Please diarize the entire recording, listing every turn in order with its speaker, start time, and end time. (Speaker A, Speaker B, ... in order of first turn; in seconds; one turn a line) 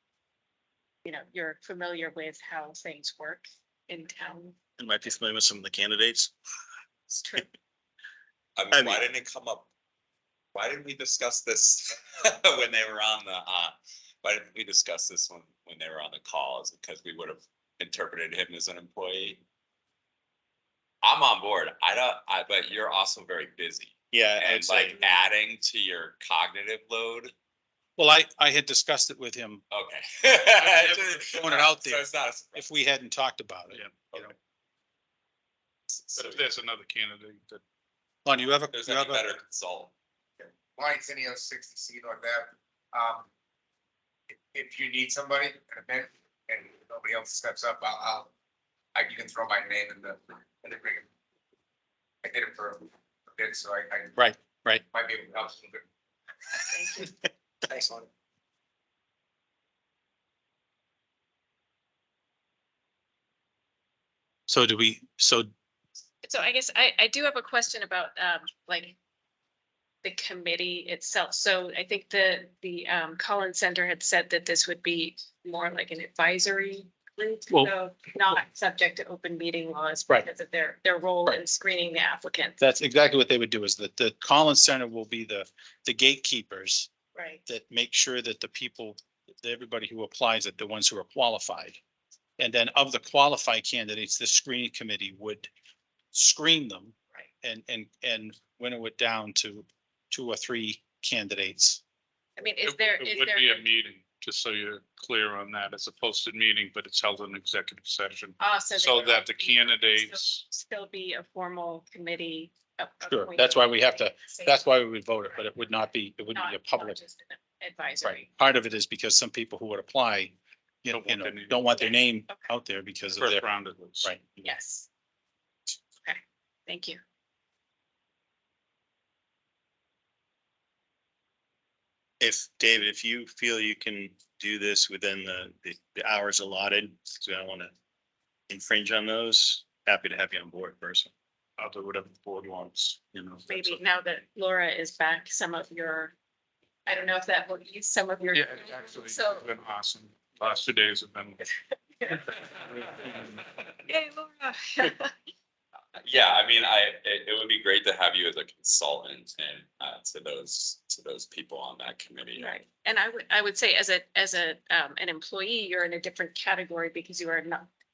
Speaker A: 1.0-4.5
Speaker B: 4.8-6.3
Speaker A: 7.1-7.5
Speaker C: 8.6-9.7
Speaker B: 8.7-9.1
Speaker C: 10.5-19.4
Speaker C: 21.0-27.3
Speaker B: 24.1-25.0
Speaker D: 28.0-29.6
Speaker C: 29.7-32.7
Speaker D: 30.6-32.0
Speaker D: 32.5-34.3
Speaker E: 33.7-34.1
Speaker C: 35.9-36.4
Speaker E: 36.1-37.6
Speaker D: 38.2-39.2
Speaker C: 38.7-39.9
Speaker F: 40.4-43.3
Speaker F: 44.3-48.3
Speaker F: 48.9-51.1
Speaker F: 52.2-54.1
Speaker D: 54.1-54.8
Speaker F: 54.9-55.9
Speaker A: 56.7-57.1
Speaker F: 57.7-58.1
Speaker D: 64.5-65.5
Speaker A: 66.2-69.0
Speaker A: 70.0-82.6
Speaker D: 82.6-86.9
Speaker A: 87.1-87.4
Speaker D: 87.5-91.8
Speaker D: 92.4-95.5
Speaker D: 96.1-101.8
Speaker A: 102.4-103.6
Speaker E: 102.6-110.4
Speaker A: 108.4-114.7
Speaker D: 113.1-117.0
Speaker A: 116.3-118.3
Speaker D: 118.0-123.4
Speaker E: 120.9-121.7
Speaker A: 121.8-122.5
Speaker E: 123.2-124.2
Speaker D: 124.0-124.4
Speaker A: 124.4-124.9
Speaker A: 125.9-127.0
Speaker B: 132.2-137.7
Speaker B: 138.5-141.1
Speaker E: 141.6-143.8
Speaker A: 143.5-146.1
Speaker A: 146.8-149.5
Speaker E: 148.3-151.4
Speaker E: 152.1-153.4
Speaker A: 153.8-155.1
Speaker C: 156.0-162.6
Speaker A: 162.3-167.7